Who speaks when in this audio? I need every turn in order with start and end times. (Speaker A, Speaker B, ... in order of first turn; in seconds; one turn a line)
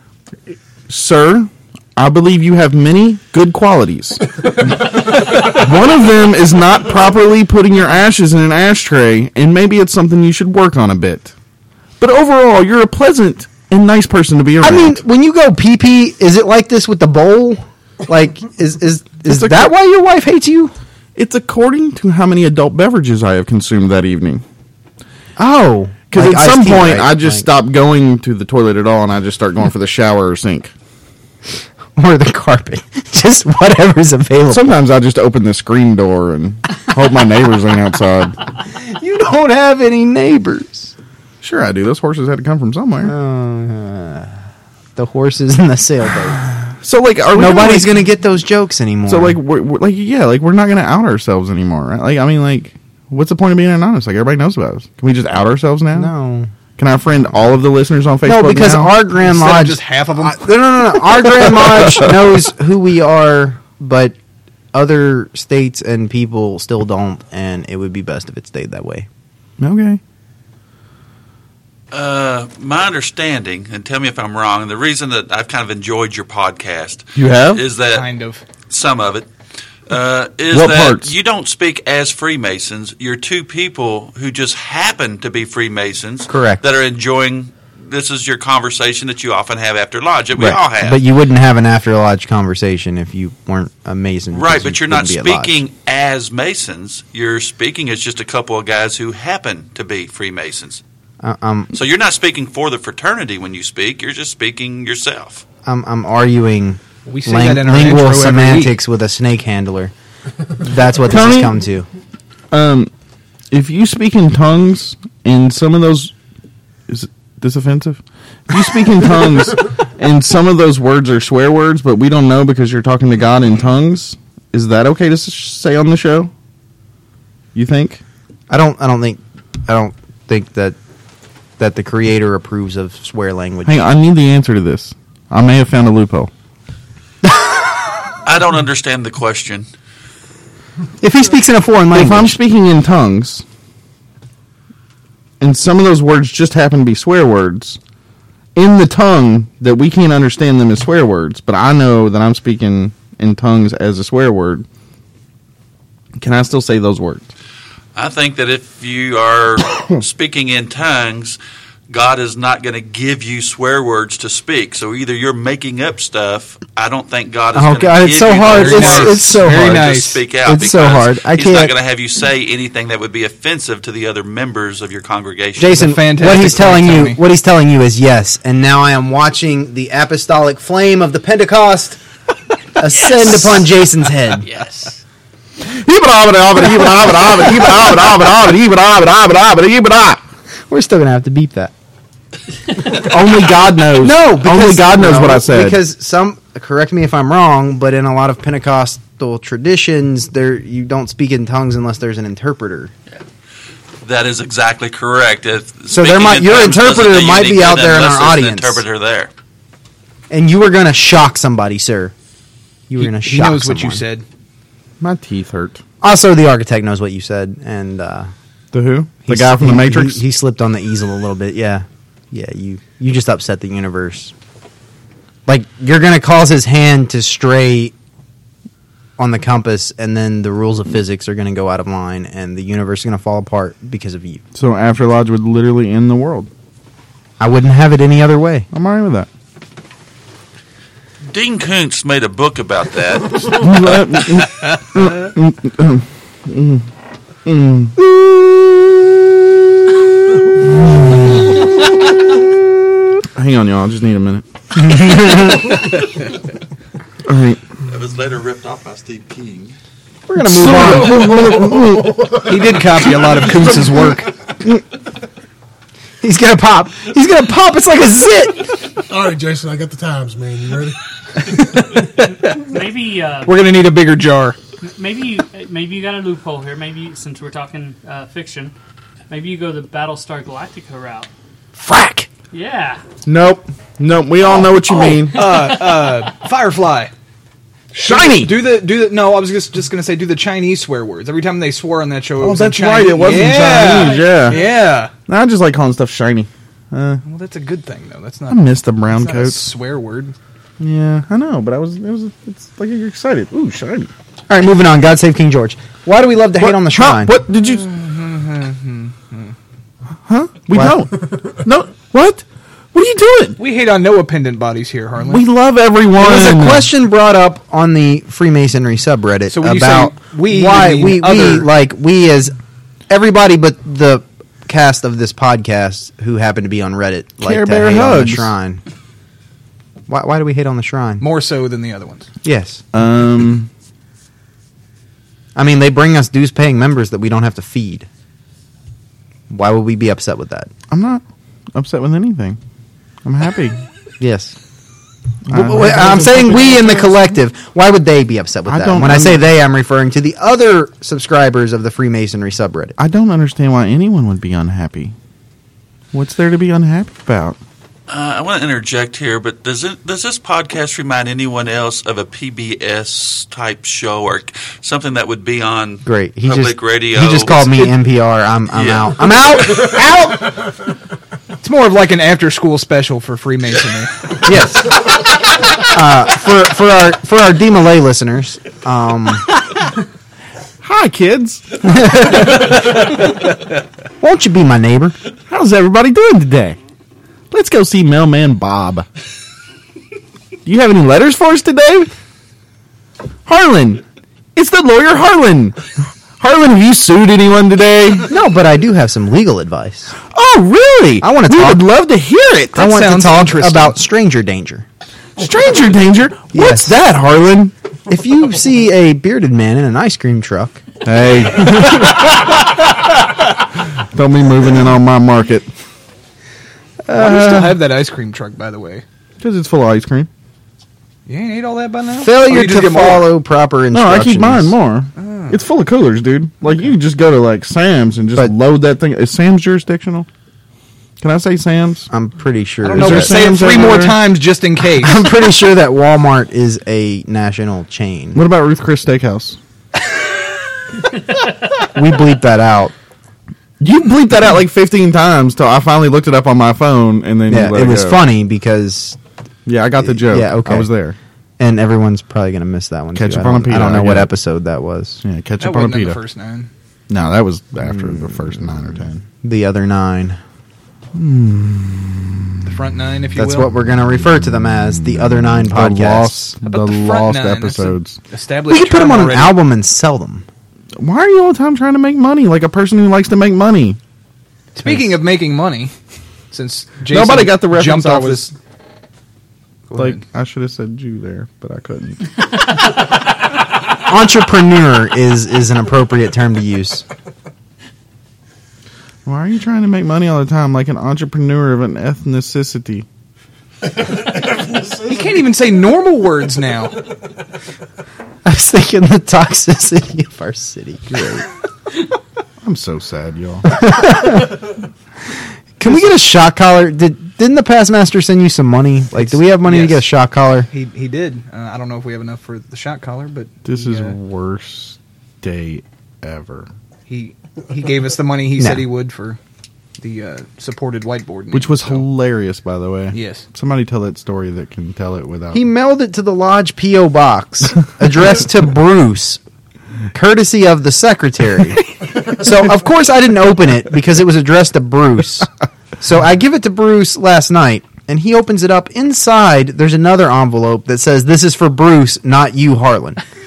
Speaker A: 0.9-11.3
Speaker A: 12.0-15.0
Speaker B: 14.6-20.7
Speaker A: 19.2-19.7
Speaker A: 21.1-24.4
Speaker B: 25.4-27.5
Speaker A: 26.1-30.7
Speaker B: 31.9-34.7
Speaker A: 34.5-38.4
Speaker B: 38.7-40.9
Speaker A: 41.4-43.1
Speaker B: 43.0-44.4
Speaker B: 45.0-46.4
Speaker A: 46.8-48.0
Speaker B: 47.4-49.4
Speaker A: 49.1-56.1
Speaker B: 55.9-56.5
Speaker A: 56.8-59.0
Speaker B: 58.2-64.1
Speaker C: 59.2-60.5
Speaker B: 64.7-69.1
Speaker A: 69.6-70.0
Speaker D: 71.9-78.1
Speaker A: 77.2-77.6
Speaker C: 77.9-78.4
Speaker D: 78.7-79.3
Speaker D: 79.9-91.0
Speaker A: 80.5-81.1
Speaker B: 86.3-86.6
Speaker B: 90.3-95.6
Speaker D: 94.3-100.8
Speaker B: 101.2-101.7
Speaker D: 101.7-105.4
Speaker B: 105.6-109.9
Speaker C: 107.0-108.8
Speaker B: 110.5-111.9
Speaker A: 111.0-111.6
Speaker A: 112.5-112.9
Speaker A: 113.5-116.1
Speaker A: 116.9-126.3
Speaker A: 127.5-128.0
Speaker B: 128.5-130.8
Speaker B: 131.6-133.8
Speaker A: 133.6-136.3
Speaker D: 138.2-139.7
Speaker B: 141.0-142.4
Speaker A: 141.9-143.4
Speaker A: 145.4-147.8
Speaker A: 148.5-154.7
Speaker A: 156.2-157.3
Speaker D: 157.9-161.4
Speaker D: 161.9-175.8
Speaker B: 167.5-169.8
Speaker C: 168.5-170.2
Speaker B: 170.4-171.7
Speaker B: 175.6-182.0
Speaker C: 175.7-177.2
Speaker B: 182.8-184.5
Speaker E: 183.0-183.5
Speaker A: 185.6-190.2
Speaker B: 190.7-191.7
Speaker A: 192.8-195.8
Speaker B: 194.0-202.9
Speaker D: 204.0-209.3
Speaker B: 205.9-208.8
Speaker B: 210.3-212.1
Speaker B: 212.9-214.0
Speaker C: 213.0-214.2
Speaker A: 215.0-215.8
Speaker B: 216.0-218.3
Speaker A: 218.7-220.2
Speaker B: 219.2-224.3
Speaker B: 225.5-227.9
Speaker B: 229.2-234.4
Speaker A: 234.5-236.5
Speaker B: 237.4-238.7
Speaker A: 238.7-239.3
Speaker D: 241.3-243.7
Speaker A: 243.5-246.9
Speaker A: 247.4-248.6
Speaker B: 250.8-251.6
Speaker A: 253.3-254.4
Speaker B: 254.7-255.8
Speaker A: 257.2-257.6
Speaker D: 257.9-259.7
Speaker B: 260.3-261.4
Speaker A: 260.4-262.6
Speaker F: 260.8-262.4
Speaker C: 262.4-264.3
Speaker B: 266.2-268.8
Speaker F: 269.1-272.0
Speaker E: 272.0-273.5
Speaker C: 273.4-274.6
Speaker E: 274.8-278.7
Speaker E: 279.3-281.3
Speaker B: 281.8-282.3
Speaker E: 282.5-283.0
Speaker A: 283.2-285.6
Speaker C: 285.3-287.1
Speaker A: 287.9-288.6
Speaker C: 288.0-295.1
Speaker A: 292.4-294.6
Speaker E: 293.7-294.8
Speaker A: 295.3-297.2
Speaker C: 297.2-300.3
Speaker A: 298.5-299.7
Speaker A: 300.8-304.1
Speaker B: 304.5-307.3
Speaker A: 306.6-307.9
Speaker C: 307.6-309.5
Speaker A: 310.2-313.6
Speaker B: 310.7-311.0
Speaker C: 313.6-315.5
Speaker A: 315.2-316.9
Speaker B: 316.2-322.6
Speaker C: 319.5-321.7
Speaker B: 323.1-328.8
Speaker A: 327.4-328.5
Speaker B: 330.1-331.2
Speaker C: 331.2-332.3
Speaker B: 332.4-332.8
Speaker A: 332.9-333.7
Speaker B: 335.6-338.1
Speaker B: 339.5-340.7
Speaker A: 340.9-341.2
Speaker A: 341.7-342.6
Speaker A: 343.2-343.8
Speaker B: 344.2-344.5
Speaker A: 345.4-347.0
Speaker B: 345.5-352.9
Speaker F: 346.2-346.7
Speaker A: 348.7-349.4
Speaker A: 353.0-355.1
Speaker A: 356.1-357.6
Speaker D: 358.1-367.9
Speaker B: 366.0-370.6
Speaker D: 368.7-369.8
Speaker C: 371.6-374.3
Speaker B: 374.4-375.0
Speaker B: 375.7-379.5
Speaker A: 380.8-382.3
Speaker B: 381.8-382.9
Speaker B: 384.2-385.1
Speaker A: 385.5-386.8
Speaker A: 387.5-389.1
Speaker A: 390.6-392.1
Speaker A: 393.4-394.0
Speaker A: 394.5-395.8
Speaker A: 396.4-398.3
Speaker B: 398.3-400.1
Speaker A: 400.3-402.9
Speaker B: 401.2-401.8
Speaker C: 402.8-404.0
Speaker B: 402.8-404.8
Speaker A: 405.4-407.7
Speaker B: 406.5-407.0
Speaker B: 408.1-410.8
Speaker A: 411.0-415.7
Speaker B: 417.0-417.7
Speaker C: 417.1-419.0
Speaker A: 419.4-420.3
Speaker C: 421.2-423.3
Speaker B: 422.2-424.7
Speaker A: 423.9-430.3
Speaker C: 425.1-425.6
Speaker A: 431.2-432.1
Speaker B: 432.1-433.4
Speaker C: 432.8-435.2
Speaker A: 432.9-434.2
Speaker B: 435.0-438.4
Speaker A: 438.3-439.6
Speaker B: 441.9-442.9
Speaker A: 443.8-448.2
Speaker B: 447.5-449.2
Speaker A: 449.6-451.2
Speaker B: 450.0-450.9
Speaker B: 451.6-455.2
Speaker A: 453.1-454.3
Speaker A: 455.2-456.2
Speaker C: 455.6-456.7
Speaker A: 457.1-459.2
Speaker B: 457.8-458.5
Speaker B: 459.4-460.4
Speaker A: 461.1-462.6
Speaker C: 462.6-463.7
Speaker B: 463.4-466.5
Speaker A: 465.2-468.2
Speaker C: 466.6-469.6
Speaker B: 468.7-470.4
Speaker A: 471.0-474.0
Speaker C: 474.7-475.9
Speaker C: 476.5-478.5
Speaker A: 477.1-478.5
Speaker C: 479.9-480.2
Speaker A: 479.9-482.3
Speaker B: 484.0-487.0
Speaker A: 489.2-493.1
Speaker F: 493.9-495.1
Speaker C: 495.0-497.0
Speaker B: 498.4-501.1
Speaker A: 501.1-501.4
Speaker A: 502.6-503.6
Speaker B: 503.7-504.6
Speaker B: 505.8-510.7
Speaker C: 509.2-510.1
Speaker C: 510.7-514.1
Speaker A: 513.6-516.7
Speaker C: 517.1-519.4
Speaker B: 518.6-518.8
Speaker C: 520.0-522.1
Speaker A: 521.5-525.6
Speaker C: 523.1-523.5
Speaker B: 525.5-529.4
Speaker B: 530.1-535.5
Speaker B: 536.0-543.2